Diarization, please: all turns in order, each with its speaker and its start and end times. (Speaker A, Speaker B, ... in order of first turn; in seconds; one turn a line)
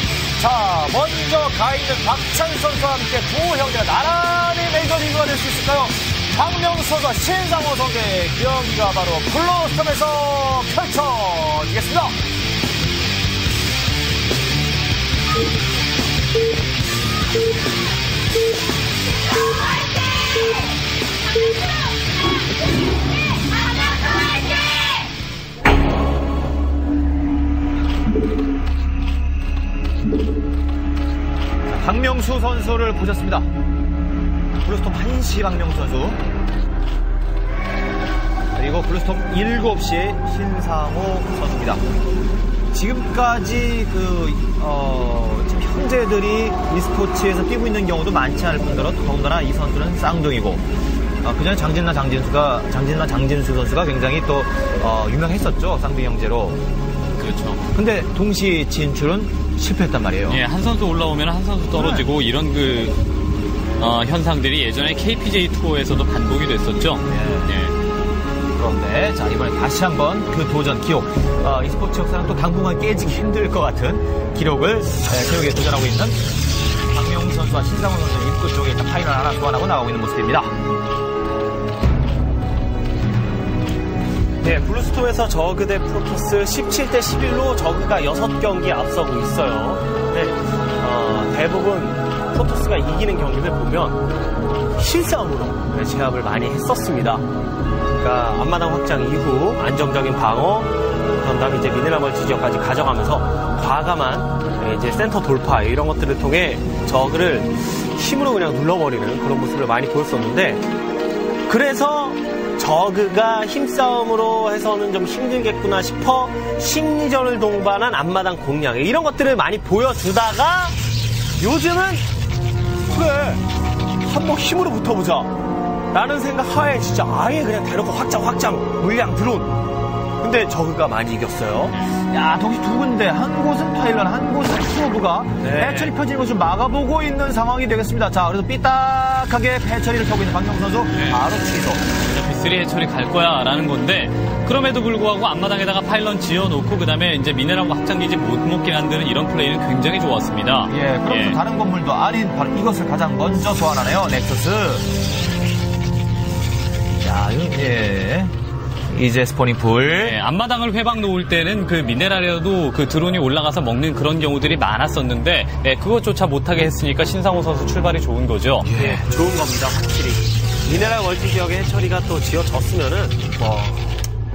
Speaker A: 0.4-12.2
Speaker A: 31.7-33.5
Speaker A: 34.6-36.2
Speaker A: 38.5-41.8
Speaker A: 42.7-50.6
Speaker A: 51.2-56.6
Speaker B: 57.2-57.7
Speaker A: 57.7-60.4
Speaker B: 60.3-63.0
Speaker A: 61.7-62.0
Speaker B: 63.8-67.7
Speaker A: 67.1-67.5
Speaker A: 68.5-76.2
Speaker A: 76.9-80.5
Speaker C: 84.4-94.0
Speaker C: 94.8-97.2
Speaker C: 98.0-110.6
Speaker C: 111.5-120.8
Speaker C: 121.4-122.0
Speaker C: 122.9-123.4
Speaker C: 124.0-125.3
Speaker C: 125.9-129.5
Speaker C: 130.2-131.8
Speaker A: 132.0-141.8
Speaker C: 135.4-135.9
Speaker B: 140.9-141.2
Speaker B: 142.0-151.4
Speaker A: 150.7-154.9
Speaker A: 157.0-158.3
Speaker A: 158.9-160.2
Speaker B: 160.0-168.7
Speaker A: 168.7-169.0
Speaker C: 168.7-174.0